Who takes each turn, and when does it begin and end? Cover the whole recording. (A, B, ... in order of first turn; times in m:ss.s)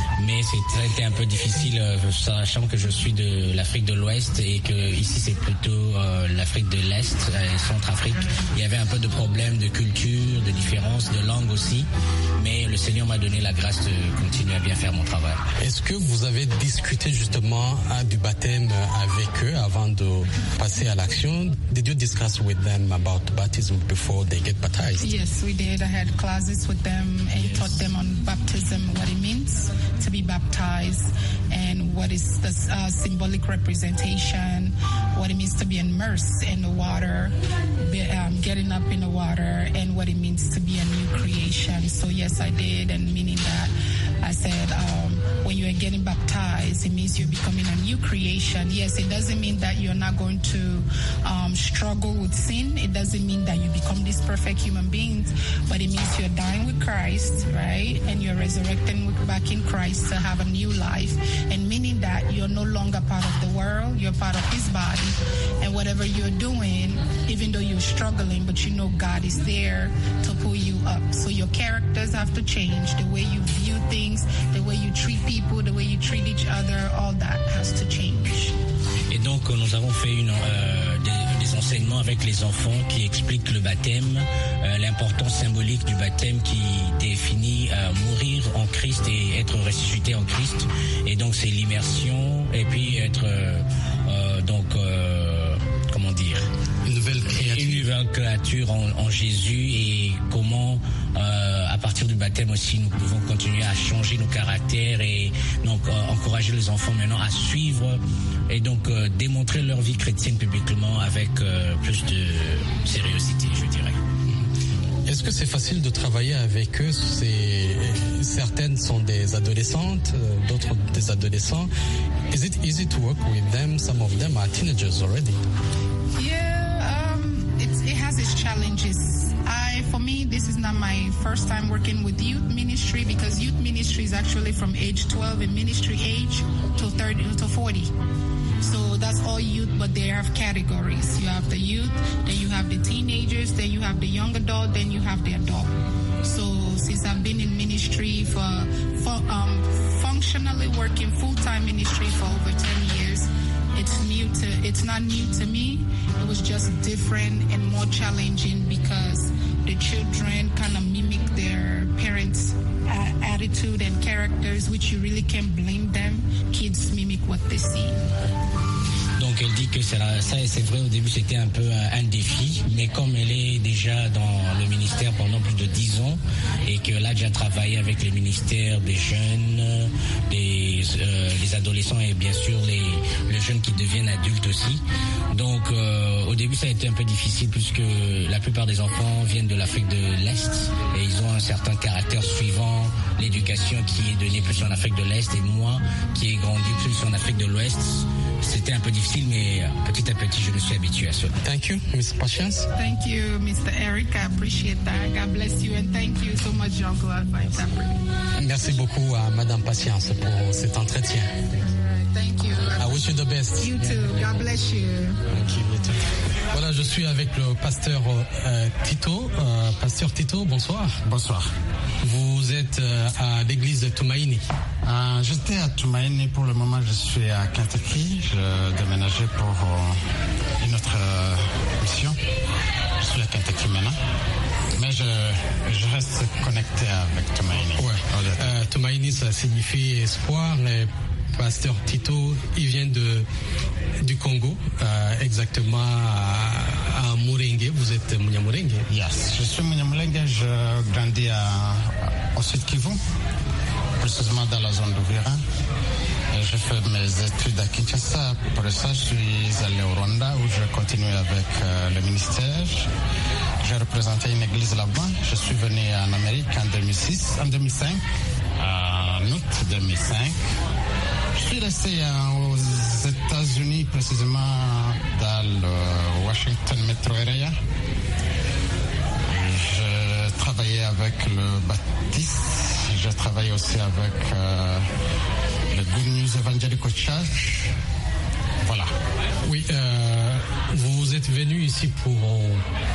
0:00.2-0:15.4 A
0:15.6-0:25.1 B
0:25.0-1:18.5 C
0:27.3-0:27.8 A
1:19.1-1:36.5 A
1:36.8-1:37.9 B
1:37.3-1:54.0 A
1:55.1-2:01.7 B
2:02.3-2:05.4 B
2:06.2-2:17.9 C
2:18.6-2:48.0 C
2:49.2-3:21.3 A
3:21.4-3:22.7 B
3:22.7-3:28.0 C
3:28.4-3:31.3 B
3:31.6-3:35.2 C
3:32.8-3:34.4 B
3:35.3-3:41.0 B
3:41.0-3:41.5 D
3:42.0-3:44.4 B
3:44.8-3:50.0 D
3:50.6-3:52.2 D
3:53.0-3:54.0 D
3:54.7-3:58.5 D
3:57.7-4:03.3 B
4:04.0-4:08.9 B
4:08.9-4:13.0 D
4:14.0-4:15.4 D
4:16.3-4:22.9 D
4:23.6-4:28.0 D
4:28.6-4:30.4 D
4:31.3-4:37.6 D
4:39.3-4:44.9 D
4:45.7-4:47.7 D
4:48.6-4:48.9 D
4:49.4-4:52.6 B